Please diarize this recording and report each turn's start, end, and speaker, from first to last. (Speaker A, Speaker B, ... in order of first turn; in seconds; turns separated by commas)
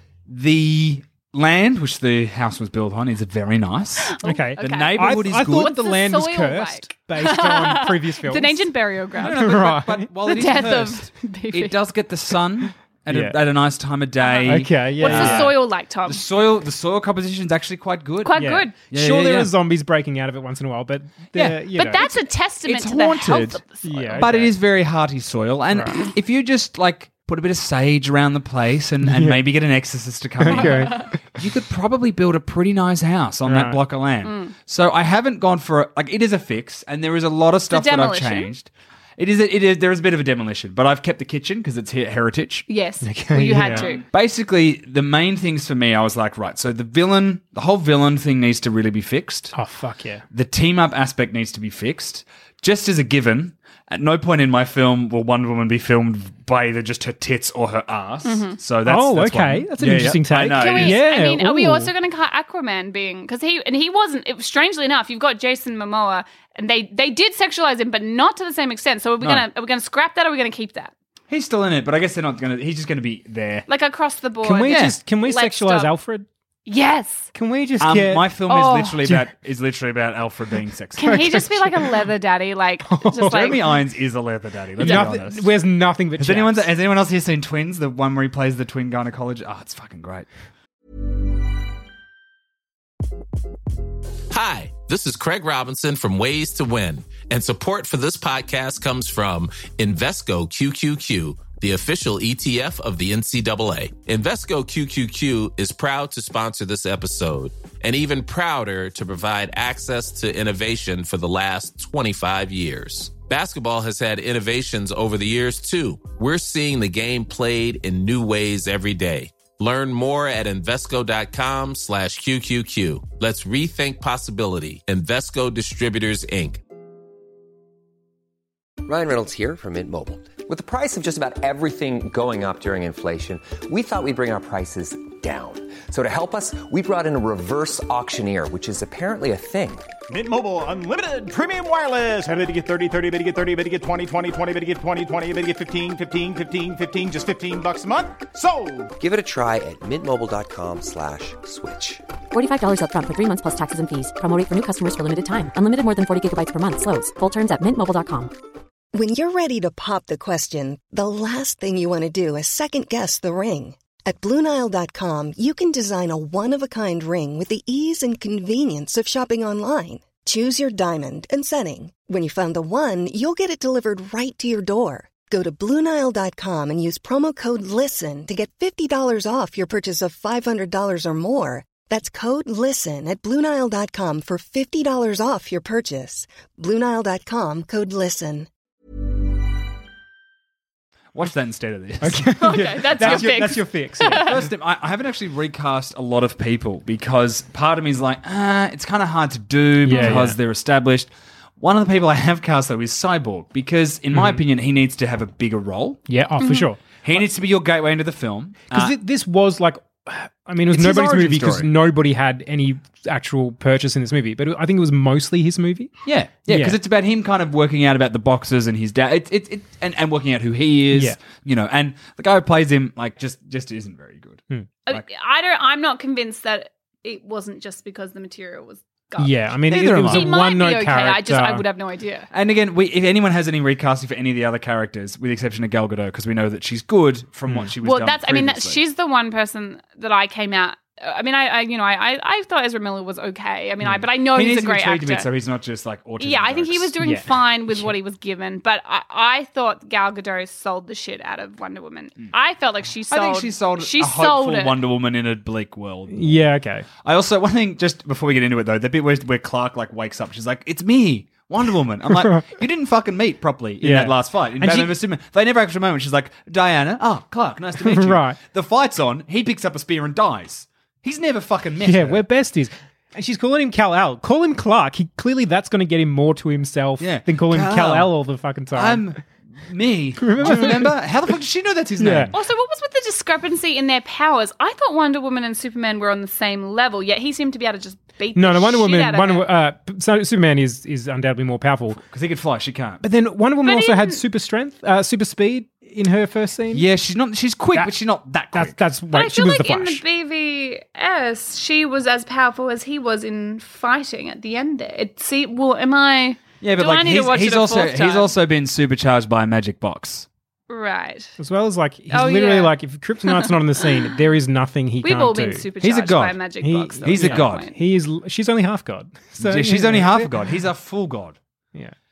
Speaker A: 0.3-5.7, Speaker B: 4.0-9.6, Speaker C: 4.2-10.1, Speaker A: 9.2-19.5, Speaker B: 10.2-11.8, Speaker C: 13.1-13.4, Speaker B: 14.2-16.2, Speaker C: 14.4-15.5, Speaker B: 18.2-18.7, Speaker C: 18.3-22.1, Speaker A: 21.3-23.6, Speaker B: 21.7-24.3, Speaker C: 23.8-24.5, Speaker A: 24.1-42.7, Speaker C: 25.7-26.0, Speaker C: 29.0-29.4, Speaker C: 30.4-31.1, Speaker B: 30.5-31.1, Speaker C: 33.5-33.8, Speaker B: 34.2-34.5, Speaker B: 37.7-38.5, Speaker B: 42.7-44.0, Speaker C: 43.0-43.9, Speaker A: 43.5-49.5, Speaker C: 49.5-50.2, Speaker A: 50.3-61.0, Speaker B: 58.2-58.6, Speaker C: 58.8-61.9, Speaker B: 60.5-70.9, Speaker A: 71.3-73.7, Speaker B: 73.7-75.9, Speaker C: 74.4-76.2, Speaker A: 74.7-75.0, Speaker B: 76.7-77.3, Speaker C: 77.3-78.3, Speaker A: 77.8-81.2, Speaker B: 78.5-79.0, Speaker B: 81.0-83.8, Speaker C: 81.0-82.1, Speaker C: 82.8-83.5, Speaker A: 83.2-85.5, Speaker B: 84.8-85.1, Speaker C: 84.8-86.7, Speaker A: 86.2-90.3, Speaker D: 94.3-126.6, Speaker E: 128.8-139.9, Speaker F: 140.1-148.9, Speaker E: 149.0-152.0, Speaker G: 152.3-158.3, Speaker H: 158.9-188.5, Speaker A: 191.1-193.5, Speaker C: 192.0-194.3, Speaker B: 192.3-194.4, Speaker A: 194.1-206.0, Speaker C: 199.8-200.4, Speaker B: 199.9-200.2, Speaker C: 204.1-204.4, Speaker C: 206.1-206.8, Speaker B: 206.4-206.7, Speaker A: 207.0-208.9, Speaker C: 208.7-215.9, Speaker A: 210.7-211.7, Speaker A: 216.1-225.0, Speaker C: 216.5-216.8, Speaker C: 220.9-221.2, Speaker B: 224.9-232.3, Speaker C: 229.2-231.6, Speaker A: 229.7-230.3, Speaker A: 232.3-238.8, Speaker C: 237.5-237.7, Speaker B: 237.8-245.3, Speaker A: 244.3-246.9, Speaker B: 246.2-254.8, Speaker C: 247.0-247.9, Speaker A: 253.1-256.5, Speaker C: 256.1-256.9, Speaker A: 257.0-272.2, Speaker C: 262.1-262.5, Speaker C: 263.8-264.9, Speaker C: 267.8-268.4, Speaker C: 271.8-279.1, Speaker A: 277.0-278.1, Speaker A: 278.7-282.3, Speaker C: 280.2-280.9, Speaker C: 282.0-282.3, Speaker B: 282.3-289.4, Speaker C: 288.4-292.0, Speaker A: 292.1-293.0, Speaker C: 293.0-296.8, Speaker B: 293.6-294.2, Speaker A: 296.7-298.8, Speaker C: 298.5-300.0, Speaker B: 299.1-308.3, Speaker A: 306.6-310.3, Speaker B: 310.7-311.4, Speaker C: 311.4-315.6, Speaker B: 312.1-312.7, Speaker B: 313.3-313.9, Speaker B: 315.0-317.7, Speaker A: 315.8-316.4, Speaker C: 316.6-320.3, Speaker A: 317.0-317.7, Speaker A: 319.4-321.4